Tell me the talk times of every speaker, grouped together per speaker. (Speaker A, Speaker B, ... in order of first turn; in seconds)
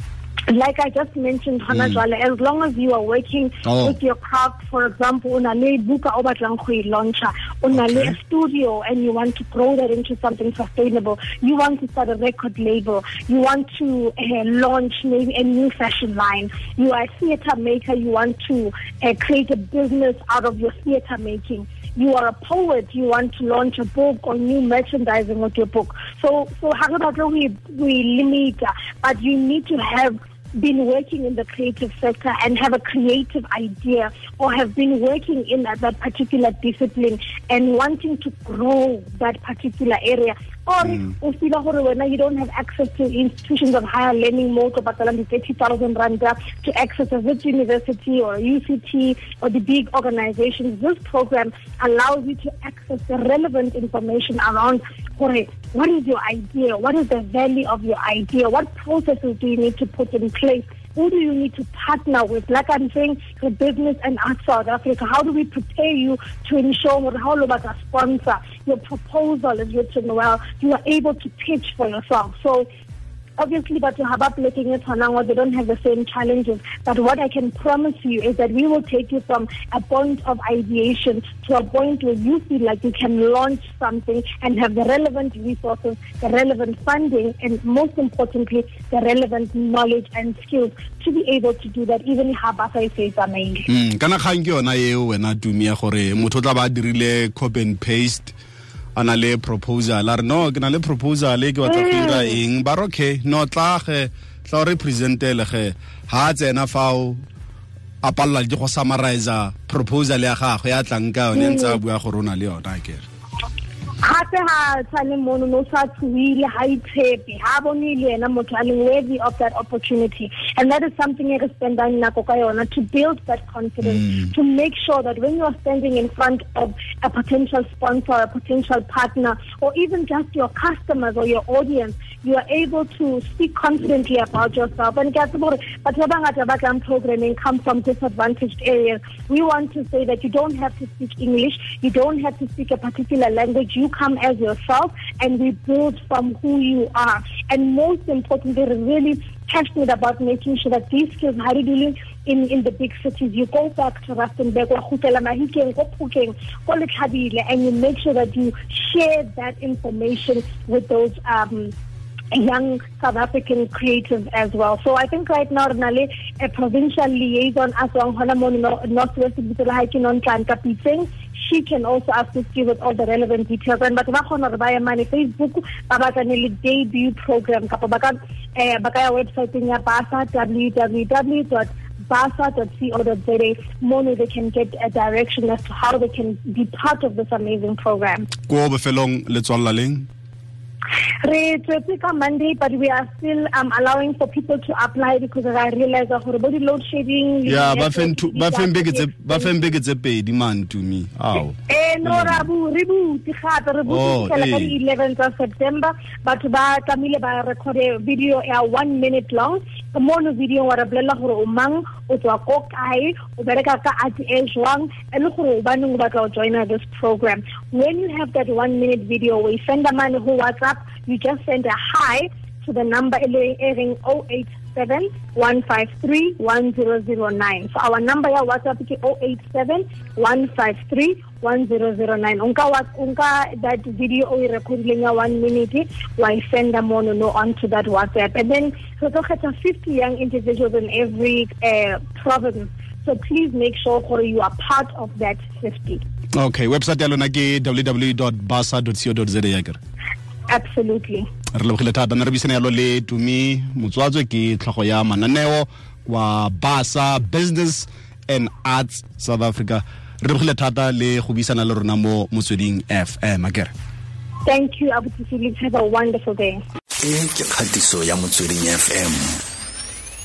Speaker A: 0.5-72.7, 73.4-93.7, 101.6-102.4, 111.3-111.8, 114.0-161.7, 162.3-188.3, 191.2-199.6, 201.7-246.0, 250.5-251.3, 264.5-266.6
Speaker B: 1.7-2.0, 3.6-4.0, 7.8-8.2, 93.7-98.3, 99.0-107.2, 108.0-113.0, 188.5-190.1, 197.5-202.5, 203.9-204.8, 246.4-249.8, 251.6-263.7
Speaker C: 267.0-269.4